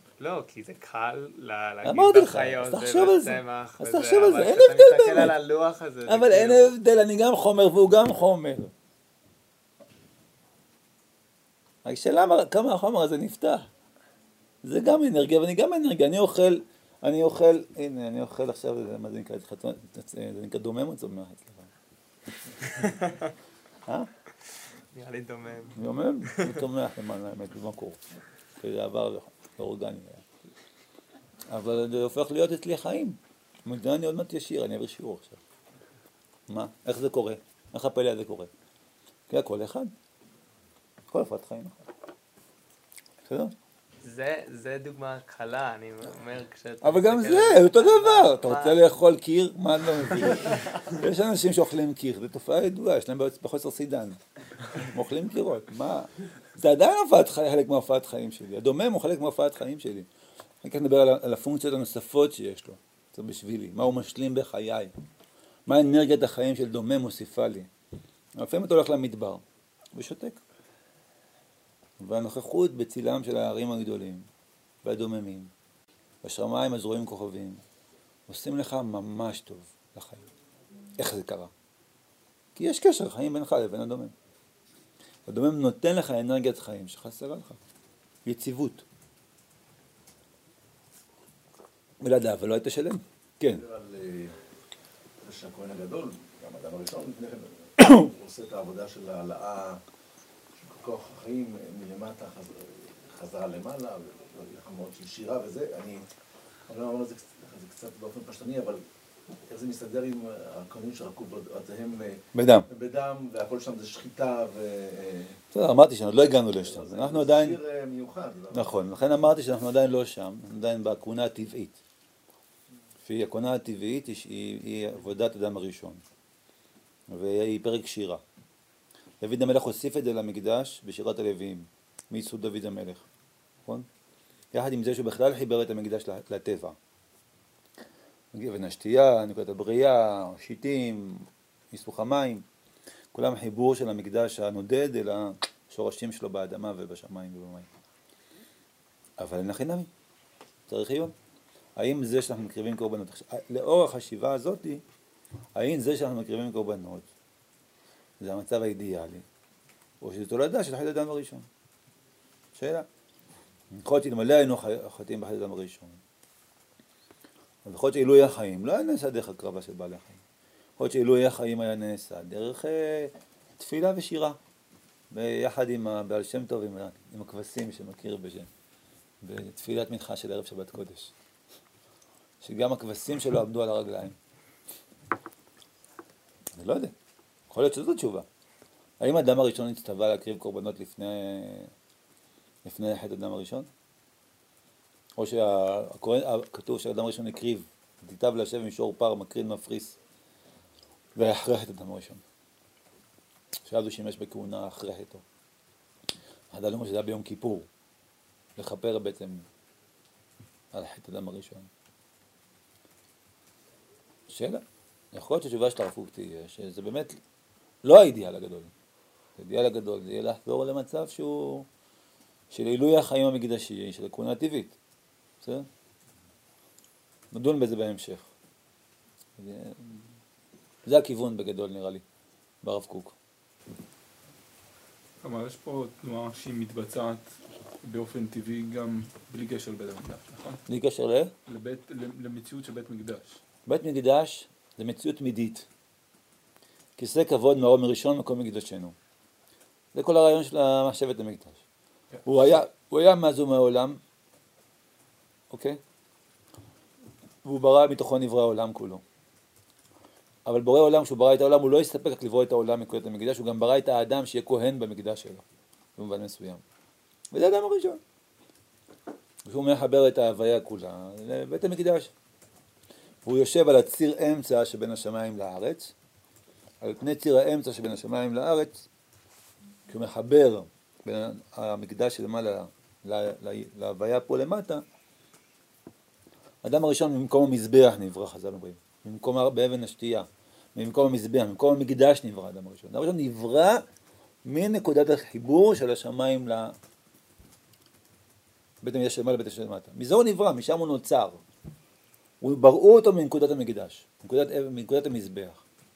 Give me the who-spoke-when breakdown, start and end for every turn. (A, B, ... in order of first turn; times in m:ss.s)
0:00.2-0:06.7 A
0:01.8-0:05.4 B
0:06.1-0:08.7 B
0:11.8-0:13.7 B
0:14.6-0:21.7 B
0:22.7-0:23.3 A
0:24.4-0:26.6 A
0:25.8-0:28.0 B
0:28.6-0:30.2 B
0:31.5-0:35.4 B
0:36.5-0:38.5 B
0:39.3-0:39.9 B
0:41.1-0:41.7 B
0:43.3-0:43.5 B
0:44.0-0:48.8 A
0:46.8-0:54.2 B
0:50.2-0:50.8 A
0:54.7-1:00.1 B
1:00.6-1:04.9 B
1:05.7-1:07.7 B
1:08.4-1:09.4 B
1:10.0-1:10.4 B
1:12.0-1:14.3 B
1:14.8-1:15.5 B
1:16.2-1:17.6 B
1:18.3-1:20.2 B
1:21.0-1:21.5 B
1:22.6-1:24.1 B
1:25.3-1:27.6 B
1:28.3-1:28.8 B
1:32.0-1:33.6 B
1:33.5-1:34.4 C
1:35.2-1:39.8 C
1:40.6-1:46.0 C
1:46.7-1:55.4 C
1:52.3-1:52.7 B
1:55.5-1:57.6 B
1:56.5-1:58.8 C
1:58.5-2:01.8 B
2:03.0-2:06.0 B
2:07.1-2:08.2 B
2:09.2-2:13.1 B
2:14.5-2:16.8 B
2:18.3-2:22.4 B
2:23.1-2:27.7 B
2:29.2-2:29.9 B
2:30.7-2:31.1 B
2:31.8-2:34.8 B
2:35.6-2:37.1 B
2:38.2-2:39.2 B
2:40.0-2:41.5 B
2:42.6-2:42.9 B
2:43.7-2:46.0 B
2:47.6-2:50.2 B
2:50.8-2:54.4 B
2:55.1-2:58.5 B
2:59.2-3:01.1 B
3:02.4-3:04.2 B
3:06.6-3:06.9 B
3:07.5-3:08.3 B
3:09.0-3:11.7 B
3:12.6-3:13.7 B
3:15.2-3:20.0 B
3:21.2-3:22.2 B
3:23.7-3:25.2 B
3:26.5-3:27.7 B
3:28.6-3:29.4 B
3:30.7-3:31.7 B
3:34.3-3:34.6 B
3:35.1-3:37.2 B
3:37.8-3:38.7 B
3:39.4-3:41.7 B
3:42.5-3:44.8 B
3:45.4-3:45.7 B
3:47.3-3:48.3 B
3:49.4-3:49.9 B
3:50.9-3:52.0 B
3:52.6-3:53.2 B
3:55.2-4:00.6 D
4:00.7-4:01.3 B
4:01.5-4:03.4 D
4:03.7-4:05.7 B
4:07.0-4:09.0 B
4:09.9-4:11.6 B
4:12.2-4:14.0 B
4:15.5-4:15.8 B
4:17.4-4:19.0 B
4:20.5-4:25.4 B
4:26.0-4:26.6 B
4:27.3-4:28.0 B
4:29.5-4:32.1 B
4:33.2-4:35.9 B
4:36.8-4:38.9 B
4:39.9-4:44.8 B
4:46.6-4:53.8 B
4:54.4-4:56.8 B
4:58.8-5:01.4 B
5:02.4-5:05.6 B